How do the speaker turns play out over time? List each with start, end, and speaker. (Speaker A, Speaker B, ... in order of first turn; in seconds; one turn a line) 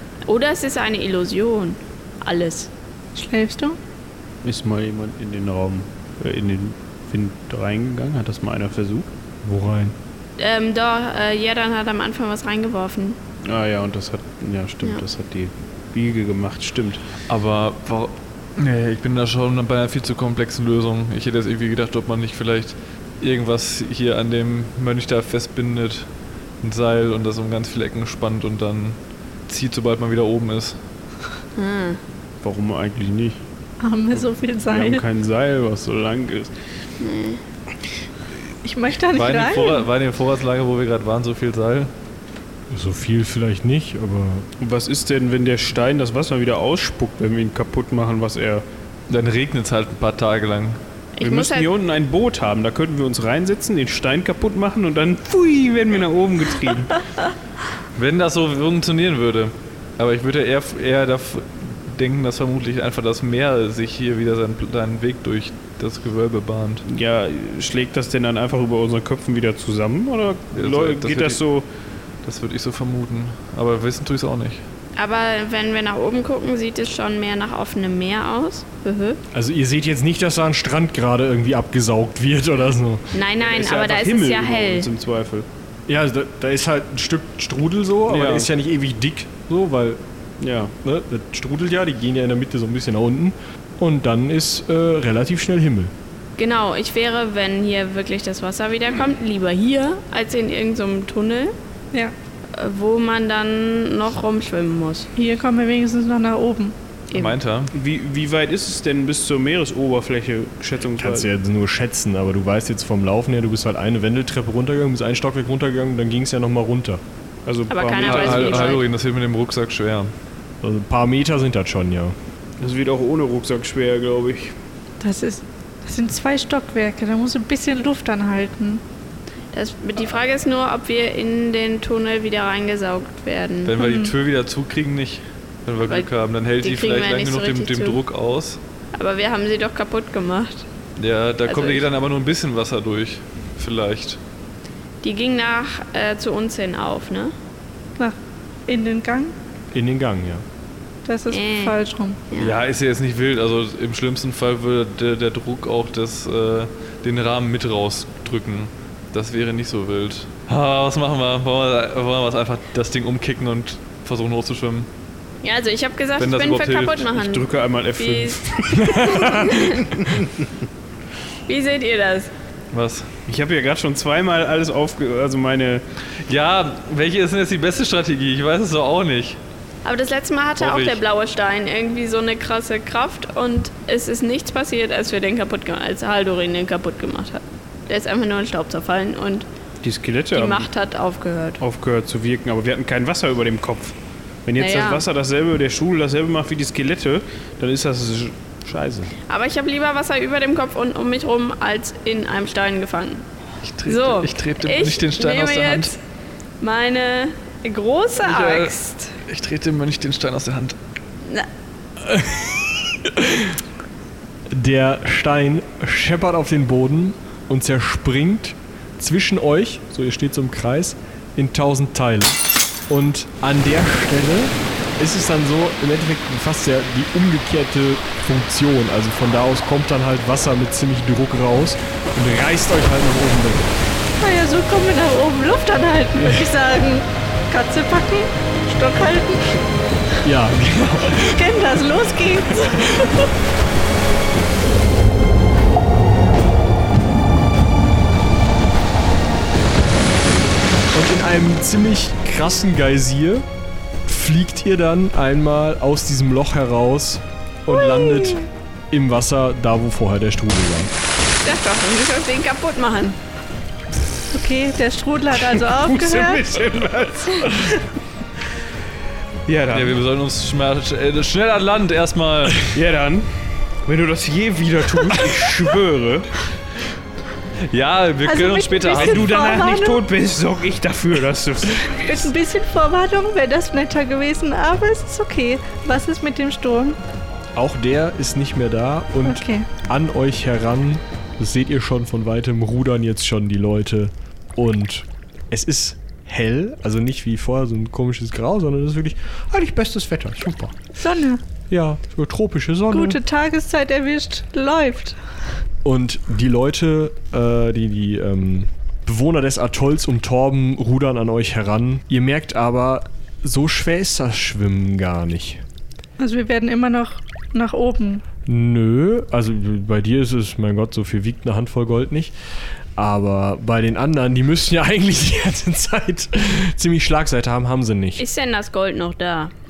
Speaker A: 0.3-2.7
Speaker B: 3.1-3.8
Speaker C: 4.4-9.1
Speaker D: 9.4-9.9
Speaker A: 10.4-13.2
Speaker C: 13.4-17.0
Speaker E: 17.3-26.1
Speaker E: 26.6-30.8
Speaker A: 31.6-32.0
Speaker C: 32.4-33.4
Speaker B: 33.8-35.0
Speaker C: 34.1-36.5
Speaker A: 37.0-37.4
Speaker B: 38.6-39.9
Speaker E: 39.1-41.9
Speaker D: 42.7-44.5
Speaker C: 44.6-48.6
Speaker E: 49.1-50.8
Speaker A: 51.2-51.7
Speaker C: 51.2-57.0
Speaker E: 58.0-66.8
Speaker C: 66.8-71.7
Speaker E: 70.5-71.4
Speaker E: 72.2-74.7
Speaker A: 75.0-79.2
Speaker D: 79.3-83.2
Speaker A: 83.1-84.9
Speaker C: 83.4-85.5
Speaker D: 85.9-90.0
Speaker C: 88.1-88.5
Speaker C: 90.4-90.8
Speaker D: 90.8-95.9
Speaker A: 96.4-101.5
Speaker A: 102.5-105.1
Speaker B: 105.2-106.8
Speaker A: 107.1-107.4
Speaker E: 107.1-107.7
Speaker C: 107.7-111.3
Speaker D: 111.0-117.0
Speaker C: 117.5-118.8
Speaker A: 117.7-118.9
Speaker E: 118.0-120.1
Speaker D: 120.6-122.2
Speaker C: 122.6-124.5
Speaker B: 125.0-128.8
Speaker A: 129.5-133.7
Speaker E: 133.7-138.6
Speaker B: 133.8-134.1
Speaker A: 136.6-138.0
Speaker A: 138.9-140.7
Speaker E: 141.0-144.2
Speaker A: 141.5-141.9
Speaker A: 145.0-147.3
Speaker B: 148.0-149.3
Speaker D: 149.7-150.4
Speaker B: 151.1-152.2
Speaker A: 151.3-151.8
Speaker A: 152.3-152.6
Speaker E: 152.3-164.9
Speaker A: 165.4-169.9
Speaker E: 166.2-167.2
Speaker C: 167.2-170.4
Speaker A: 171.5-172.3
Speaker E: 172.7-173.1
Speaker C: 173.3-175.8
Speaker E: 176.3-179.4
Speaker A: 179.8-189.5
Speaker E: 180.6-181.0
Speaker C: 189.8-190.7
Speaker A: 190.3-191.6
Speaker C: 191.6-193.9
Speaker C: 194.5-199.1
Speaker A: 194.6-195.1
Speaker A: 199.3-203.2
Speaker E: 203.6-205.9
Speaker A: 203.9-206.0
Speaker A: 206.6-209.1
Speaker E: 208.2-210.8
Speaker D: 212.0-213.6
Speaker D: 214.5-233.8
Speaker B: 234.2-239.6
Speaker D: 240.2-241.5
Speaker B: 241.2-243.2
Speaker D: 250.9-253.5
Speaker D: 254.1-260.9
Speaker A: 261.4-263.2
Speaker B: 264.3-266.6
Speaker C: 265.7-267.8
Speaker C: 269.5-270.0
Speaker E: 269.7-272.7
Speaker C: 272.6-276.3
Speaker E: 277.7-279.4
Speaker B: 278.3-280.0
Speaker C: 278.9-282.3
Speaker B: 282.0-287.0
Speaker D: 287.6-300.8
Speaker B: 289.2-289.7
Speaker B: 301.0-301.4
Speaker D: 301.7-303.2
Speaker B: 302.9-305.2
Speaker D: 305.8-315.6
Speaker B: 316.2-318.2
Speaker D: 318.5-322.3
Speaker D: 323.0-328.2
Speaker A: 328.2-329.5